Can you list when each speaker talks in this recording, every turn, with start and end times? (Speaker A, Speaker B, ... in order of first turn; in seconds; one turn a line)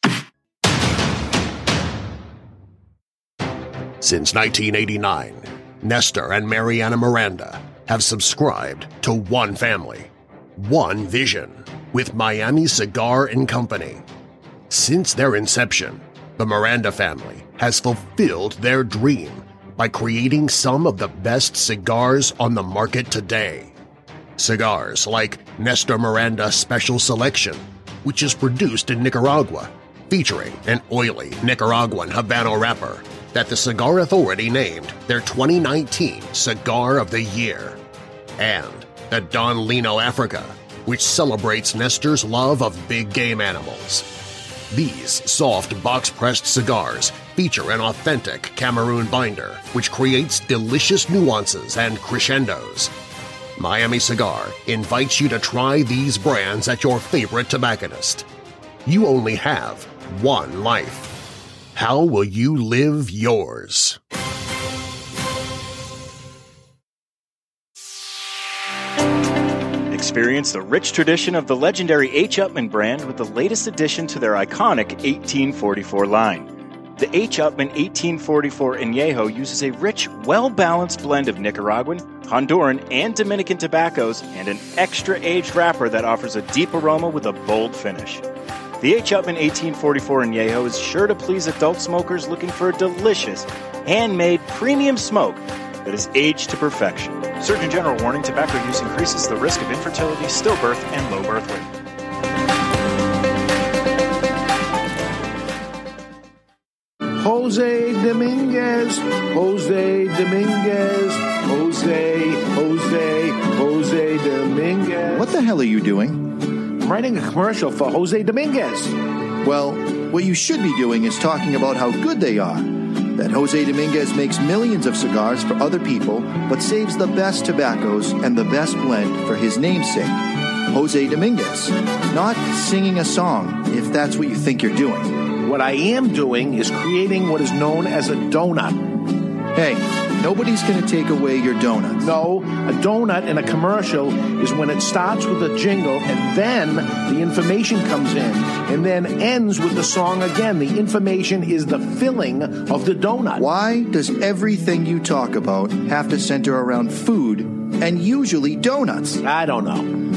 Speaker A: 4.0-14.0
Speaker A: 14.7-23.7
Speaker A: 24.4-37.8
Speaker A: 38.4-44.1
Speaker A: 44.7-52.9
Speaker A: 53.6-58.3
Speaker A: 58.9-61.1
Speaker A: 61.7-64.0
Speaker B: 69.9-88.2
Speaker B: 88.8-101.7
Speaker C: 107.2-115.3
Speaker D: 115.1-116.4
Speaker C: 116.8-119.0
Speaker D: 119.4-135.2
Speaker C: 135.4-139.0
Speaker D: 139.5-142.1
Speaker C: 142.0-153.4
Speaker D: 153.4-159.2
Speaker C: 159.2-160.0